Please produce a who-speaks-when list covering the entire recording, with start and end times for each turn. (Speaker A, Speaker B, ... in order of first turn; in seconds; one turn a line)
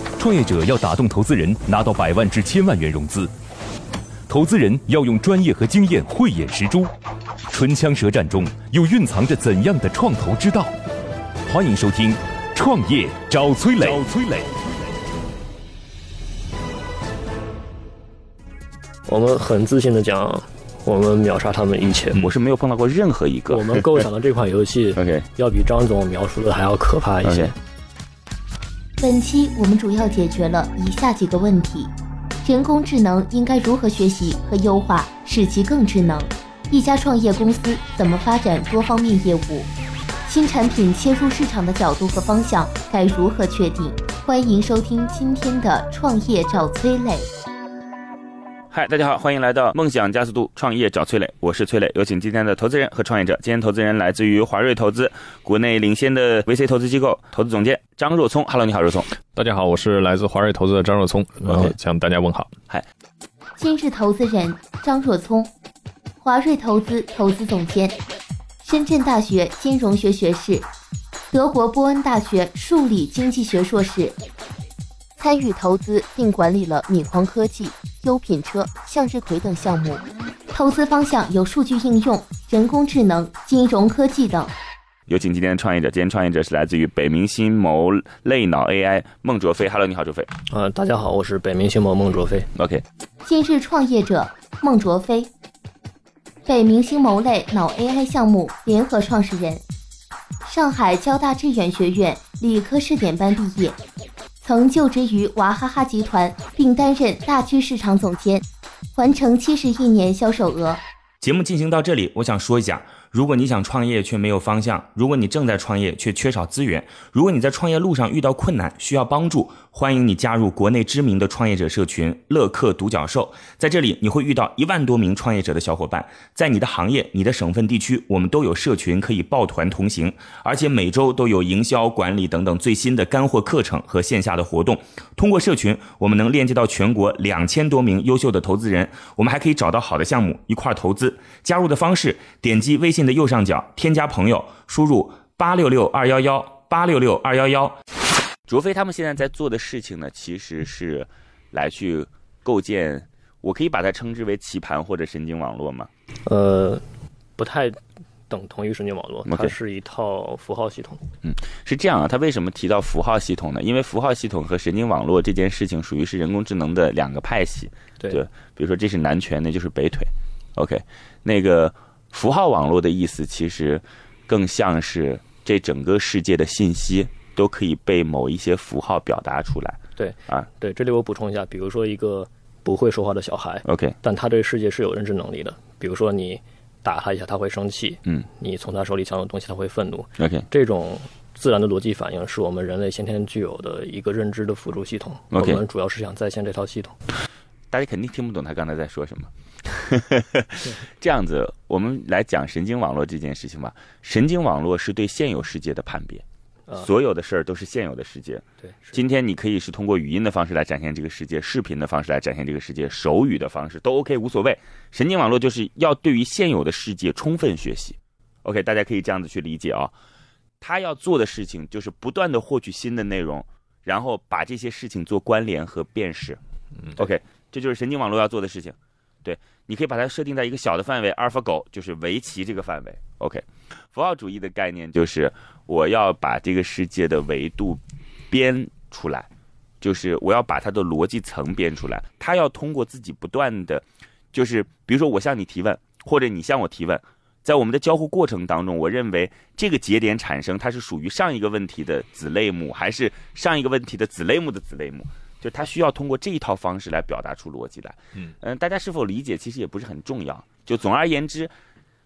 Speaker A: 0.2-3.3
Speaker A: 4.3-6.9
Speaker A: 7.5-10.7
Speaker A: 11.5-14.5
Speaker B: 19.1-22.2
Speaker C: 22.1-23.8
Speaker B: 23.5-27.5
Speaker C: 24.9-25.2
Speaker C: 27.2-27.5
Speaker D: 29.0-31.9
Speaker D: 32.4-39.7
Speaker D: 40.3-47.3
Speaker C: 48.7-59.1
Speaker E: 59.3-62.5
Speaker C: 61.5-61.7
Speaker D: 63.6-65.5
Speaker D: 66.2-68.0
Speaker D: 68.6-70.7
Speaker D: 71.3-74.2
Speaker D: 75.2-84.5
Speaker C: 85.1-90.3
Speaker B: 90.5-92.5
Speaker C: 92.5-92.8
Speaker D: 93.2-95.3
Speaker D: 96.5-99.6
Speaker D: 100.4-103.8
Speaker D: 104.4-110.8
Speaker F: 111.2-147.8
Speaker C: 148.5-155.9
Speaker B: 156.2-156.8
Speaker B: 157.4-157.8
Speaker B: 158.3-161.0
Speaker C: 159.2-159.5
Speaker C: 161.2-180.5
Speaker B: 180.0-197.0
Speaker C: 183.7-183.9
Speaker C: 190.2-190.4
Speaker C: 195.3-195.6
Speaker C: 197.7-206.2
Speaker C: 206.8-219.9
Speaker B: 208.6-209.0
Speaker C: 220.6-226.4
Speaker C: 226.9-239.3
Speaker C: 239.8-261.5